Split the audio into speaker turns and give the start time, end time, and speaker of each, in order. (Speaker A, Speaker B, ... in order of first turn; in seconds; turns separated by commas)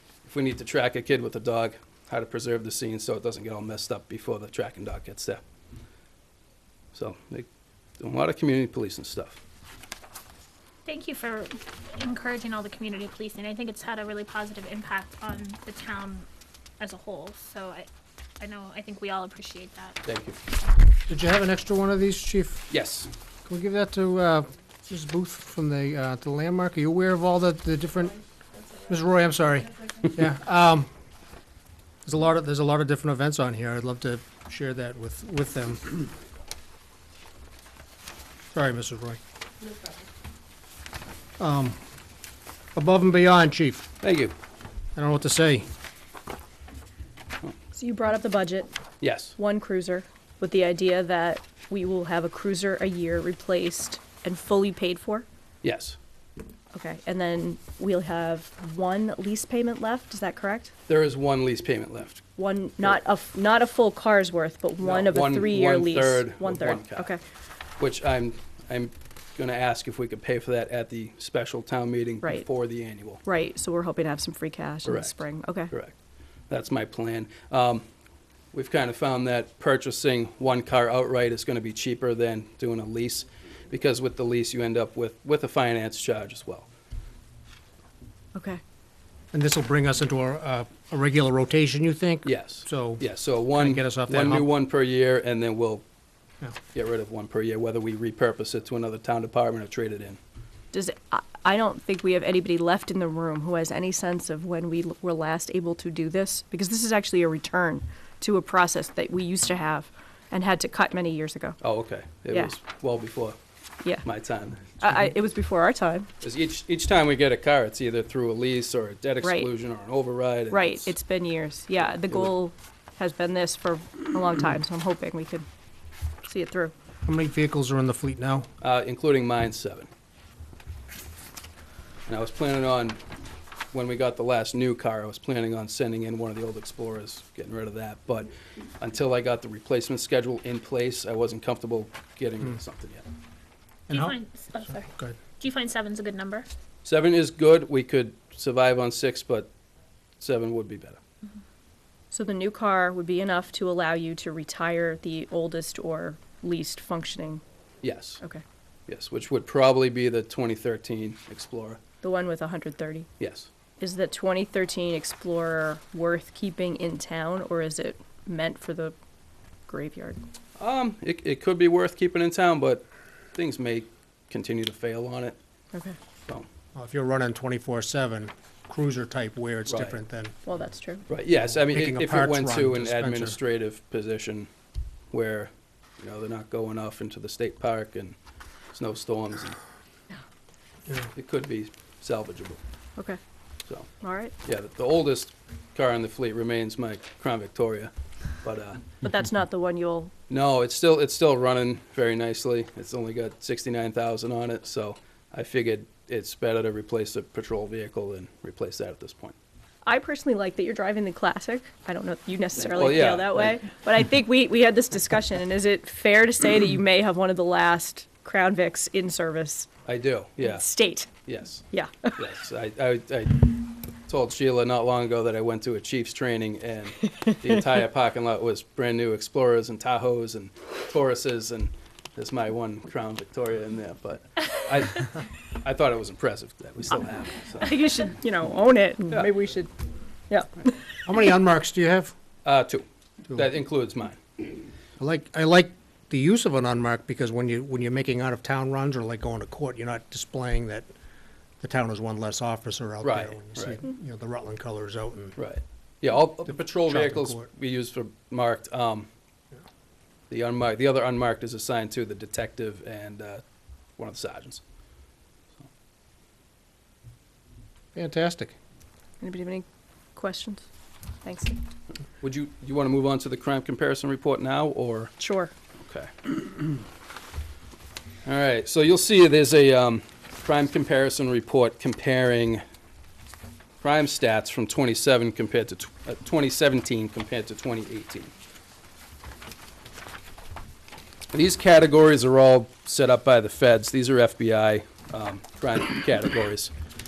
Speaker A: 0.2-5.4, Speaker A: 6.9-7.5, Speaker A: 8.0-9.4, Speaker B: 10.8-16.3, Speaker B: 16.8-17.9, Speaker B: 18.4-20.0, Speaker A: 20.0-20.4, Speaker C: 21.1-22.7, Speaker A: 22.7-23.1, Speaker C: 23.4-28.2, Speaker C: 28.9-30.9, Speaker C: 32.0-36.1, Speaker C: 38.5-39.2, Speaker C: 41.4-41.8, Speaker C: 42.7-43.9, Speaker A: 44.0-44.3, Speaker C: 45.0-45.7, Speaker D: 47.7-48.7, Speaker A: 49.0-49.4, Speaker D: 49.4-55.2, Speaker A: 55.6-56.0, Speaker D: 56.7-60.7, Speaker A: 60.9-62.2, Speaker D: 62.4-67.2, Speaker A: 64.8-67.1, Speaker A: 67.8-73.2, Speaker D: 73.2-75.7, Speaker A: 74.8-75.9, Speaker A: 76.5-77.8, Speaker A: 78.5-86.7, Speaker D: 88.3-88.6, Speaker C: 89.3-93.0, Speaker A: 92.2-95.8, Speaker C: 93.5-94.5, Speaker A: 96.7-100.2, Speaker D: 100.7-111.6, Speaker A: 111.6-113.4, Speaker A: 114.0-114.9, Speaker D: 114.8-116.1, Speaker A: 116.2-120.9, Speaker D: 119.2-119.5, Speaker D: 120.5-125.5, Speaker D: 126.2-126.7, Speaker C: 127.0-128.5, Speaker A: 128.6-129.9, Speaker A: 132.1-133.0, Speaker A: 133.7-143.0, Speaker C: 143.9-144.2, Speaker B: 143.9-146.5, Speaker C: 144.7-145.2, Speaker A: 146.8-149.5, Speaker A: 150.2-151.0, Speaker D: 152.1-157.4, Speaker A: 157.8-158.2, Speaker A: 158.9-161.8, Speaker D: 162.0-163.1, Speaker A: 163.2-163.5, Speaker D: 163.8-168.9, Speaker D: 169.7-170.2, Speaker A: 170.6-175.4, Speaker C: 176.7-180.4, Speaker A: 179.7-180.0, Speaker D: 180.4-181.1, Speaker A: 181.1-184.5, Speaker C: 181.4-183.4, Speaker A: 185.1-188.2, Speaker A: 188.7-189.6, Speaker A: 191.1-192.6, Speaker D: 194.0-194.3, Speaker A: 194.4-198.9, Speaker D: 199.0-200.1, Speaker A: 200.3-209.3, Speaker D: 209.8-219.7, Speaker A: 212.6-213.6, Speaker A: 219.8-220.7, Speaker D: 220.4-221.1, Speaker A: 221.2-223.5, Speaker D: 221.7-222.1, Speaker A: 224.1-237.8, Speaker D: 237.6-239.7, Speaker D: 240.3-240.7, Speaker C: 241.1-242.1, Speaker A: 242.4-244.2, Speaker C: 245.0-250.9, Speaker C: 251.6-255.4, Speaker A: 253.0-253.8, Speaker A: 255.3-259.1, Speaker C: 256.6-257.5, Speaker A: 260.3-263.4, Speaker A: 264.0-264.6, Speaker C: 267.9-268.6, Speaker D: 269.2-269.6, Speaker D: 270.1-270.7, Speaker D: 271.2-271.6, Speaker A: 272.2-275.1, Speaker D: 275.2-275.5, Speaker A: 275.8-276.8, Speaker A: 278.2-282.6, Speaker A: 283.8-288.3, Speaker A: 291.3-296.7